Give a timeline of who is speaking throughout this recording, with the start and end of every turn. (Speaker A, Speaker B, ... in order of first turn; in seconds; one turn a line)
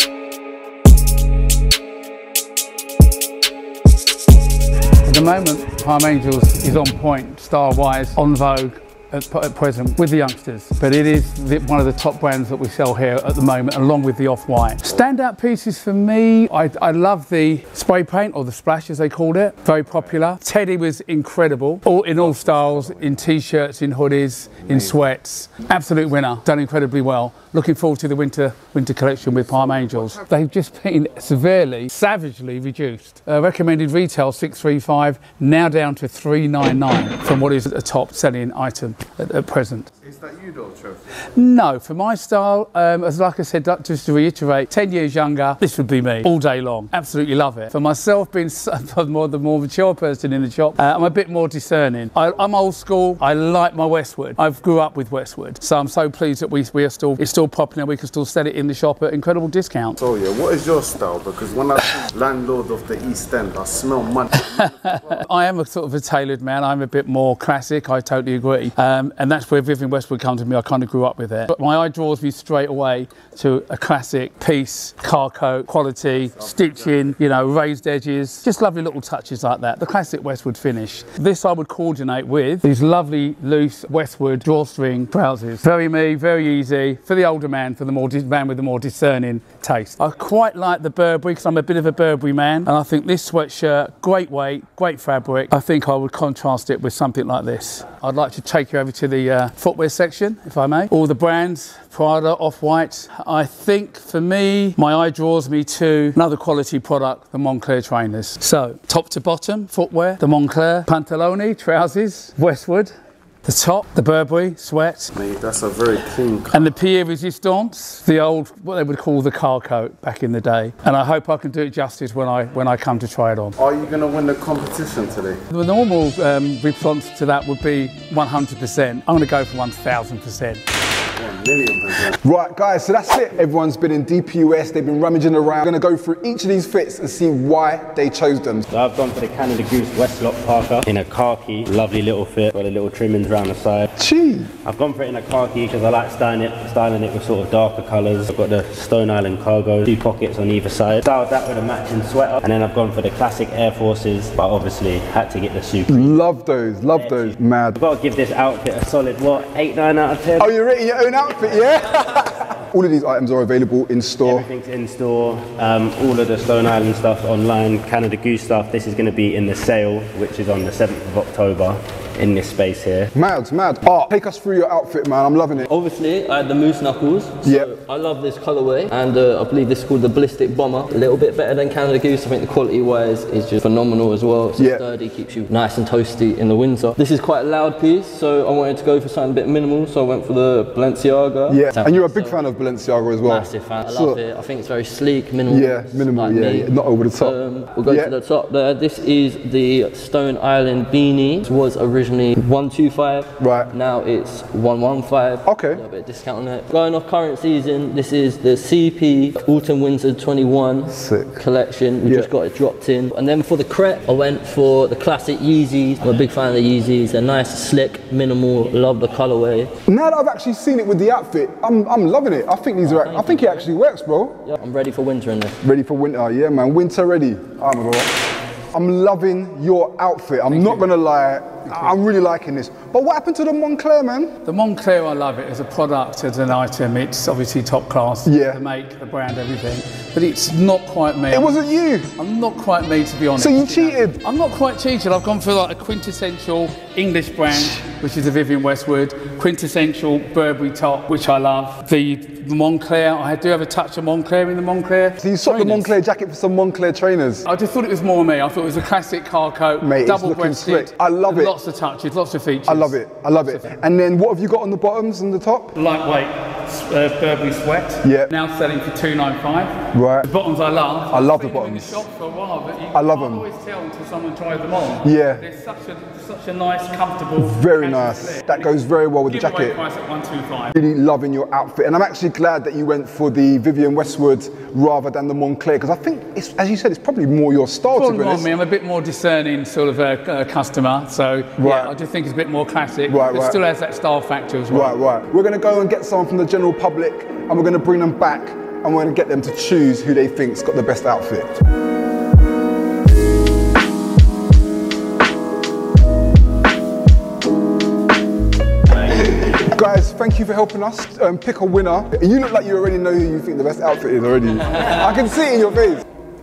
Speaker A: 5.1-39.9
Speaker B: 5.1-5.8
Speaker B: 14.8-15.4
Speaker B: 19.9-20.8
Speaker C: 19.9-20.2
Speaker B: 21.8-23.3
Speaker C: 22.2-23.2
Speaker B: 24.5-26.1
Speaker C: 24.6-25.0
Speaker B: 28.7-31.2
Speaker C: 29.3-30.2
Speaker B: 36.8-38.2
Speaker C: 40.0-41.0
Speaker A: 41.4-60.0
Speaker B: 45.9-46.4
Speaker C: 60.0-64.8
Speaker A: 64.3-112.8
Speaker B: 64.9-65.6
Speaker B: 73.1-73.8
Speaker B: 76.3-77.6
Speaker B: 89.5-90.3
Speaker B: 97.9-98.5
Speaker B: 99.8-100.5
Speaker B: 101.8-112.9
Speaker B: 113.5-115.0
Speaker A: 113.5-115.1
Speaker C: 115.1-116.7
Speaker B: 116.5-123.5
Speaker A: 116.6-123.5
Speaker C: 123.6-125.4
Speaker A: 125.5-130.6
Speaker B: 125.6-130.5
Speaker C: 131.2-132.2
Speaker D: 132.2-138.6
Speaker E: 138.7-143.9
Speaker D: 144.0-144.5
Speaker E: 144.6-156.2
Speaker D: 155.9-157.8
Speaker E: 157.0-160.5
Speaker D: 160.4-164.5
Speaker E: 164.2-173.1
Speaker D: 173.1-175.7
Speaker B: 175.6-192.4
Speaker D: 177.4-177.7
Speaker D: 184.6-184.8
Speaker D: 191.5-194.2
Speaker B: 193.2-219.7
Speaker D: 195.5-198.1
Speaker D: 203.4-203.7
Speaker D: 205.4-205.8
Speaker D: 210.9-211.4
Speaker D: 212.0-212.3
Speaker D: 219.9-224.4
Speaker B: 222.8-223.7
Speaker B: 224.4-225.6
Speaker D: 225.6-228.1
Speaker D: 228.7-234.3
Speaker B: 230.5-230.9
Speaker B: 231.7-232.0
Speaker B: 234.4-241.6
Speaker A: 234.5-238.1
Speaker D: 238.2-238.6
Speaker A: 238.6-241.1
Speaker D: 241.3-242.1
Speaker B: 242.2-255.9
Speaker A: 242.3-243.4
Speaker D: 243.4-244.2
Speaker A: 244.2-246.7
Speaker D: 247.5-247.8
Speaker A: 248.1-250.7
Speaker A: 251.3-255.1
Speaker D: 255.2-257.4
Speaker B: 257.4-263.7
Speaker A: 257.7-259.8
Speaker D: 259.8-261.5
Speaker A: 261.6-262.6
Speaker D: 262.7-265.8
Speaker B: 265.8-269.5
Speaker A: 265.8-266.3
Speaker A: 266.9-269.7
Speaker D: 268.0-268.3
Speaker D: 269.9-270.3
Speaker B: 270.2-278.7
Speaker A: 270.3-271.0
Speaker D: 271.1-272.0
Speaker A: 272.1-272.9
Speaker D: 272.9-273.4
Speaker A: 273.4-274.9
Speaker D: 275.0-275.4
Speaker A: 275.4-277.2
Speaker D: 277.4-279.8
Speaker B: 279.3-280.7
Speaker A: 279.8-280.7
Speaker D: 280.7-288.5
Speaker B: 287.9-289.8
Speaker A: 288.4-293.1
Speaker B: 290.3-295.0
Speaker D: 291.6-291.9
Speaker D: 293.1-293.6
Speaker A: 293.7-294.7
Speaker D: 294.7-301.6
Speaker E: 308.9-309.6
Speaker D: 309.6-316.0